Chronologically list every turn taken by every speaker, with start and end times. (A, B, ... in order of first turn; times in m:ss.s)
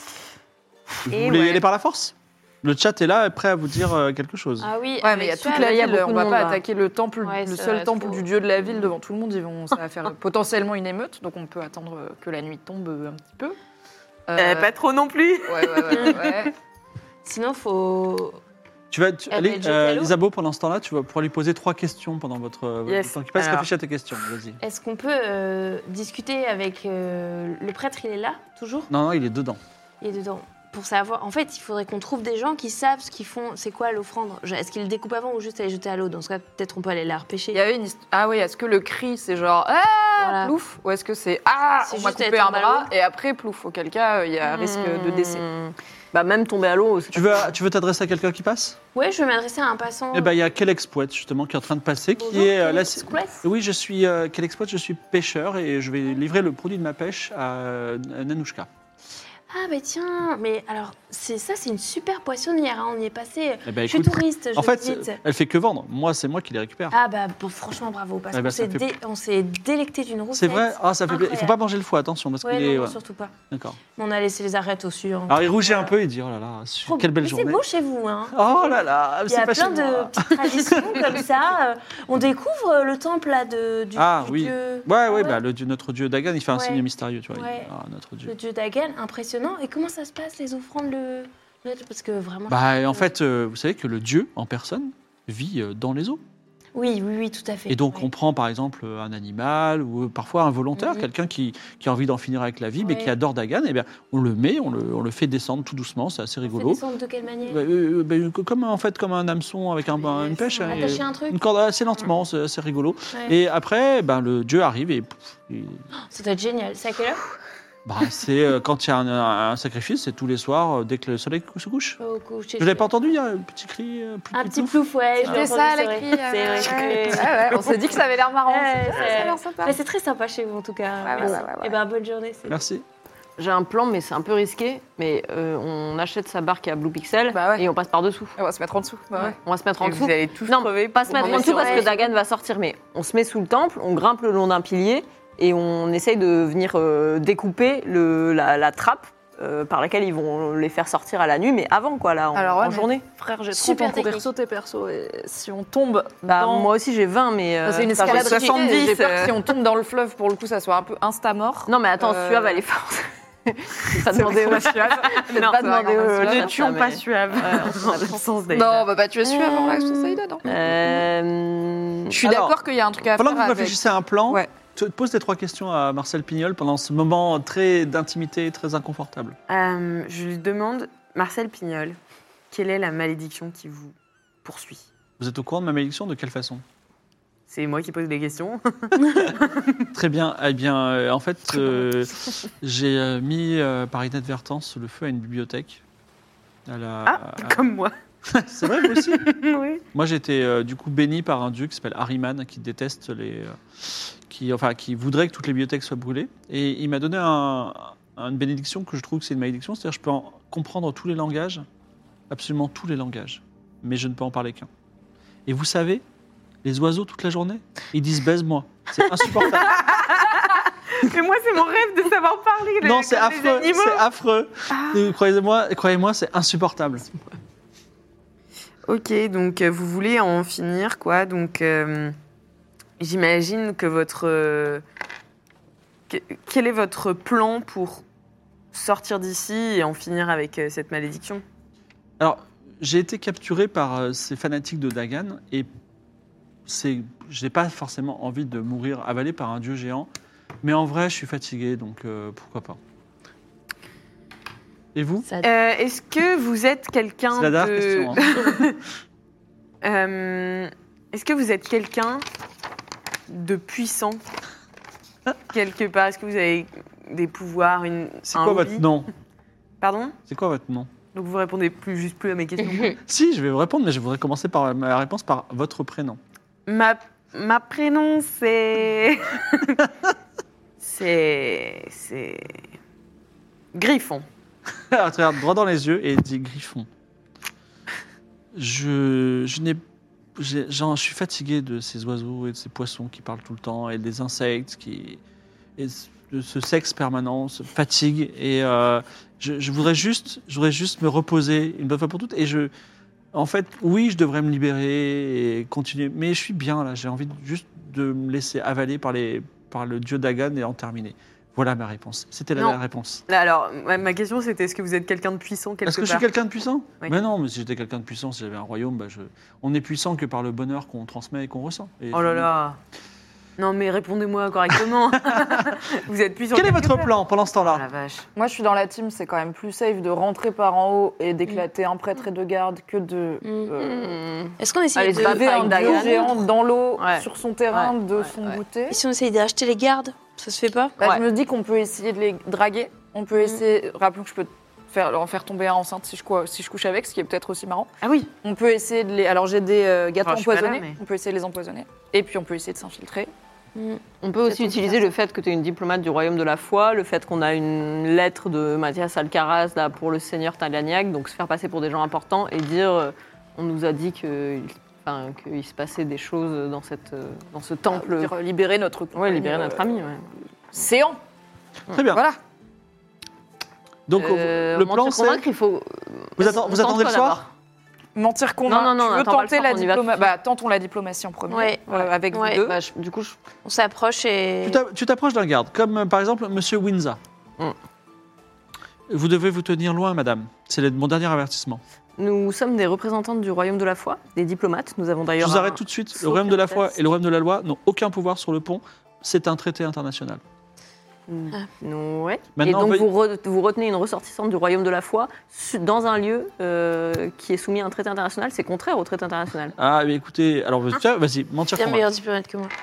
0:01.0-0:04.7 A
0:01.1-0:01.6 B
0:04.6-0:05.8 C
0:05.0-0:13.6 D
0:05.5-0:06.6 E
0:07.2-0:08.2 C
0:14.3-0:14.7 D
0:14.4-0:16.4 B
0:15.5-0:16.5 D
0:17.2-0:18.4 C
0:18.9-0:24.6 A
0:19.3-0:20.2 C
0:22.9-0:23.7 B
0:24.6-0:28.9 C
0:28.9-0:29.6 A
0:30.0-0:37.6 C
0:37.5-0:45.5 D
0:40.2-0:40.6 C
0:41.8-0:42.9 C
0:44.4-0:47.5 E
0:47.1-0:48.8 A
0:49.0-0:50.4 C
0:50.1-0:58.7 A
0:52.2-0:53.5 C
0:59.5-1:05.2 C
1:03.7-1:07.0 A
1:06.9-1:11.6 C
1:08.3-1:08.9 A
1:10.4-1:13.0 A
1:12.4-1:13.3 C
1:13.5-1:13.8 A
1:14.0-1:15.9 C
1:15.3-1:17.6 A
1:16.9-1:25.4 C
1:18.3-1:21.0 A
1:24.0-1:28.3 A
1:26.5-1:27.7 C
1:28.3-1:33.1 C
1:32.5-1:36.2 A
1:36.8-1:38.1 C
1:37.7-1:46.8 A
1:40.8-1:41.1 C
1:42.8-1:43.1 C
1:46.5-1:47.6 C
1:47.5-1:55.8 A
1:50.2-1:51.4 C
1:56.1-1:57.2 C
1:57.8-2:02.0 A
2:02.0-2:02.9 C
2:02.6-2:05.5 A
2:04.3-2:07.8 C
2:05.2-2:09.8 D
2:08.5-2:12.6 C
2:11.0-2:11.8 D
2:12.5-2:12.8 A
2:13.4-2:18.4 E
2:17.3-2:17.7 D
2:18.4-2:19.4 D
2:19.2-2:33.0 E
2:19.8-2:21.9 B
2:21.1-2:21.9 C
2:21.2-2:21.9 D
2:32.3-2:36.7 D
2:33.5-2:34.3 C
2:36.2-2:39.4 E
2:37.6-2:42.6 D
2:38.1-2:38.9 B
2:41.7-2:48.2 E
2:44.0-2:46.8 D
2:46.2-2:48.9 B
2:48.5-2:51.0 D
2:49.2-2:52.2 E
2:52.1-2:52.6 A
2:52.2-2:53.8 D
2:53.2-2:59.4 A
2:59.5-3:02.0 B
3:02.5-3:04.9 B
3:05.2-3:06.6 A
3:07.5-3:09.9 B
3:09.9-3:15.8 A
3:16.7-3:17.6 A
3:17.0-3:17.9 B
3:18.3-3:19.3 A
3:18.9-3:19.8 B
3:19.9-3:31.7 A
3:32.3-3:34.7 A
3:35.5-3:36.0 A
3:36.6-3:40.0 A
3:39.5-3:44.0 B
3:42.8-3:47.1 A
3:44.7-3:45.1 B
3:48.8-3:52.2 B
3:53.0-3:54.8 B
3:56.1-3:58.0 B
3:58.7-4:01.4 B
4:02.2-4:05.7 A
4:06.7-4:10.1 A
4:10.6-4:12.8 A
4:15.0-4:15.3 A
4:15.4-4:18.8 B
4:17.3-4:18.2 A
4:19.8-4:22.2 B
4:23.3-4:24.2 B
4:25.5-4:28.9 B
4:28.2-4:29.1 A
4:29.8-4:30.2 B
4:30.3-4:30.9 A
4:31.0-4:33.0 B
4:33.0-4:36.2 A
4:36.7-4:39.8 B
4:40.8-4:42.7 B
4:43.7-4:44.2 B
4:44.9-4:46.9 A
4:48.5-4:49.8 A
4:50.4-4:55.2 A
4:55.8-5:02.7 A
5:03.3-5:13.2 A
5:13.3-5:16.2 B
5:15.8-5:22.5 A
5:22.1-5:22.8 B
5:23.6-5:28.3 B
5:25.2-5:25.8 A
5:26.5-5:27.8 A
5:28.4-5:34.2 D
5:33.4-5:33.8 C
5:33.8-5:36.4 E
5:34.6-5:36.3 C
5:35.0-5:39.0 D
5:37.0-5:38.6 E
5:38.9-5:41.0 C
5:41.0-5:53.3 D
5:48.0-5:48.3 B
5:50.2-5:51.0 B
5:53.8-5:54.8 C
5:54.2-6:08.3 E
6:07.9-6:10.0 D
6:09.1-6:10.3 E
6:10.7-6:11.2 D
6:11.9-6:12.2 A
6:12.1-6:12.4 D
6:14.1-6:15.4 A
6:14.2-6:17.5 E
6:16.4-6:17.4 A
6:18.2-6:22.8 D
6:18.7-6:20.3 E
6:21.5-6:22.7 C
6:22.6-6:23.4 E
6:23.6-6:24.8 C
6:24.6-6:27.2 A
6:29.1-6:31.8 A
6:32.2-6:37.0 E
6:35.4-6:40.4 A
6:41.3-6:49.8 E
6:42.6-6:43.1 A
6:49.8-6:52.1 A
6:51.8-6:52.7 C